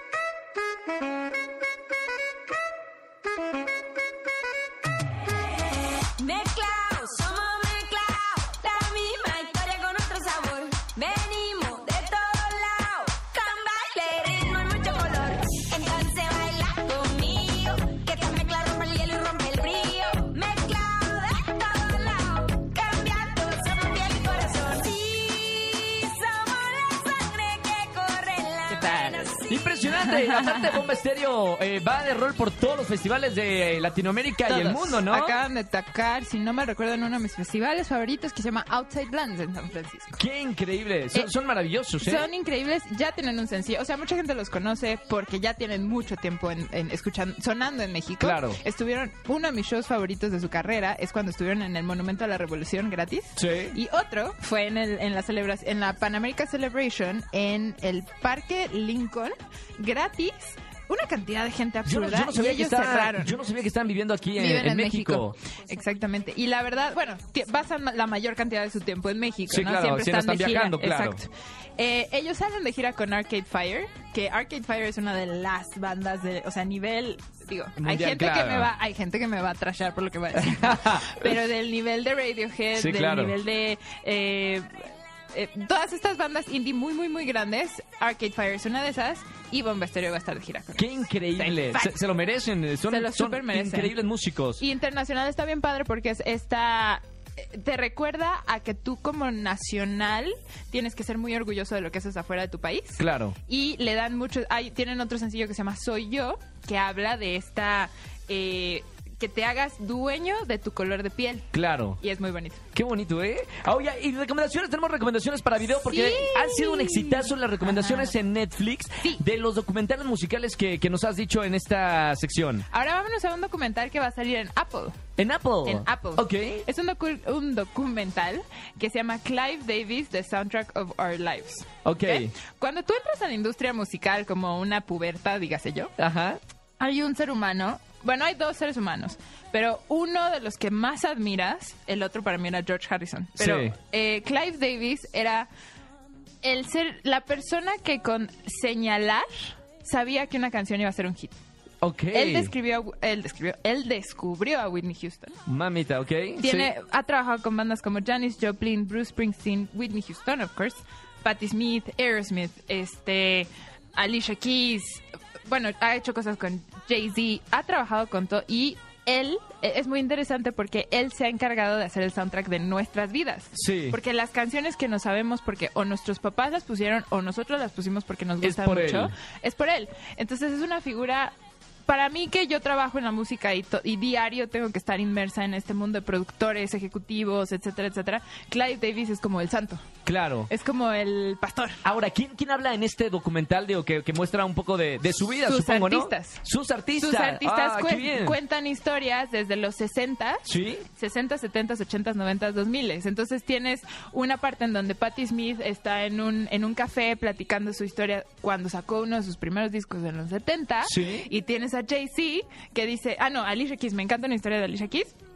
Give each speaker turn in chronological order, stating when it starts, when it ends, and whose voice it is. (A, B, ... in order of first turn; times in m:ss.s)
0:06.2-0:29.5 A
0:28.7-0:29.4 B
0:29.5-0:35.3 C
0:30.0-0:30.8 B
0:34.4-0:40.2 B
0:40.2-0:42.3 C
0:42.0-1:03.4 B
0:48.2-0:48.6 C
0:53.4-0:53.8 C
1:01.8-1:05.4 C
1:04.4-1:32.0 B
1:09.5-1:11.2 C
1:17.8-1:18.7 C
1:20.4-1:21.3 C
1:22.7-1:23.3 C
1:30.8-1:34.6 C
1:32.9-1:33.9 B
1:34.6-1:52.6 B
1:43.0-1:43.4 C
1:51.5-1:52.0 C
1:52.7-2:02.7 C
1:55.6-1:58.1 B
2:02.7-2:05.0 B
2:05.2-2:06.6 C
2:05.6-2:15.9 B
2:11.8-2:12.3 C
2:16.0-2:16.4 C
2:16.8-2:25.5 B
2:23.4-2:23.8 C
2:26.4-2:31.4 B
2:31.8-2:32.5 C
2:32.1-2:35.4 B
2:35.4-2:36.7 C
2:36.4-3:01.3 B
2:53.5-2:54.0 C
2:58.4-2:59.1 C
3:01.8-3:09.8 B
3:10.0-3:10.5 C
3:10.5-3:11.8 B
3:11.8-3:18.4 C
3:15.3-3:16.4 B
3:17.0-3:35.1 B
3:20.4-3:20.8 C
3:30.8-3:31.3 C